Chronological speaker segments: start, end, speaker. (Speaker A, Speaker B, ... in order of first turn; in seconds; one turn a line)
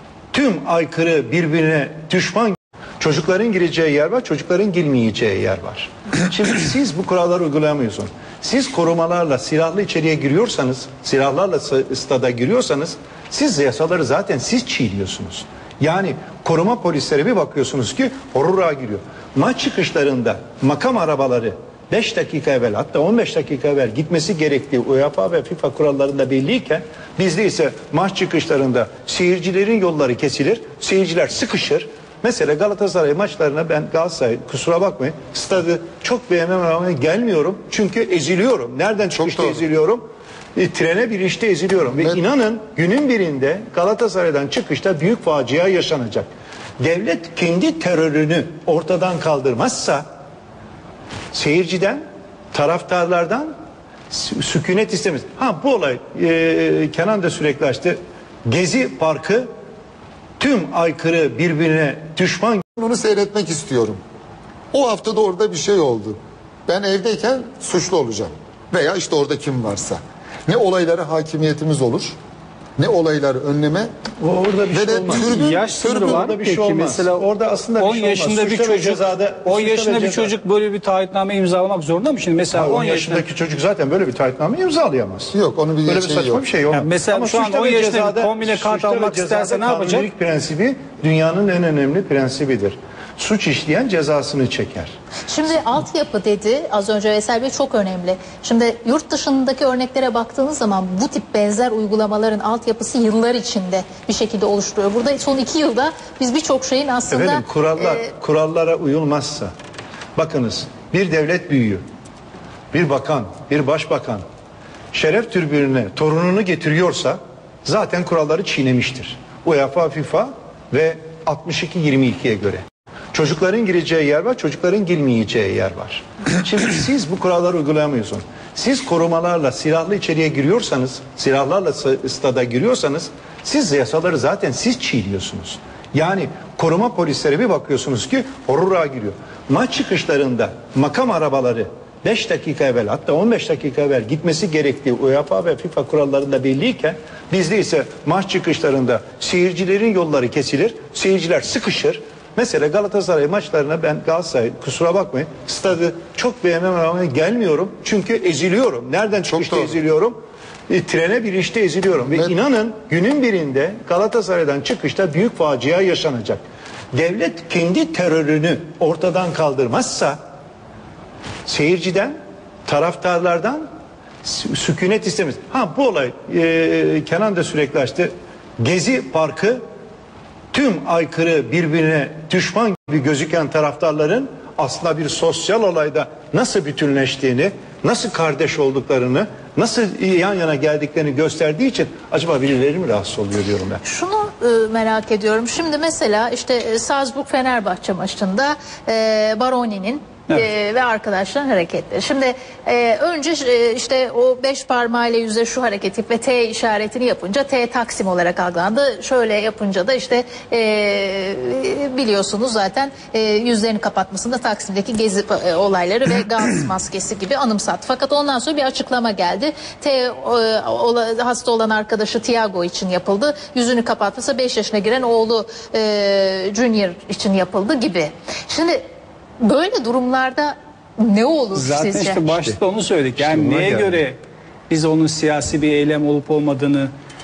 Speaker A: 0.3-40.0
Speaker B: 39.1-39.6
Speaker A: 40.5-46.3
Speaker A: 46.8-50.0
Speaker A: 51.3-53.5
Speaker A: 54.1-59.5
Speaker A: 60.4-62.6
Speaker B: 62.8-64.0
Speaker B: 64.7-72.2
Speaker B: 72.8-73.9
Speaker A: 74.2-80.3
Speaker B: 74.7-76.3
Speaker C: 75.1-77.3
Speaker C: 77.8-83.2
Speaker A: 82.5-85.3
Speaker B: 85.3-86.4
Speaker A: 85.8-95.0
Speaker C: 86.7-90.1
Speaker D: 95.3-108.1
Speaker A: 107.1-109.5
Speaker A: 110.2-111.8
Speaker A: 112.7-114.2
Speaker A: 114.9-160.2
Speaker B: 159.3-159.8
Speaker A: 160.7-166.4
Speaker A: 166.9-170.2
Speaker A: 171.4-172.1
Speaker A: 172.7-173.7
Speaker A: 174.2-179.6
Speaker A: 180.5-193.8
Speaker D: 193.8-228.8
Speaker D: 229.4-232.2
Speaker C: 231.5-234.2
Speaker A: 232.3-232.6
Speaker A: 233.2-234.0
Speaker C: 234.7-236.9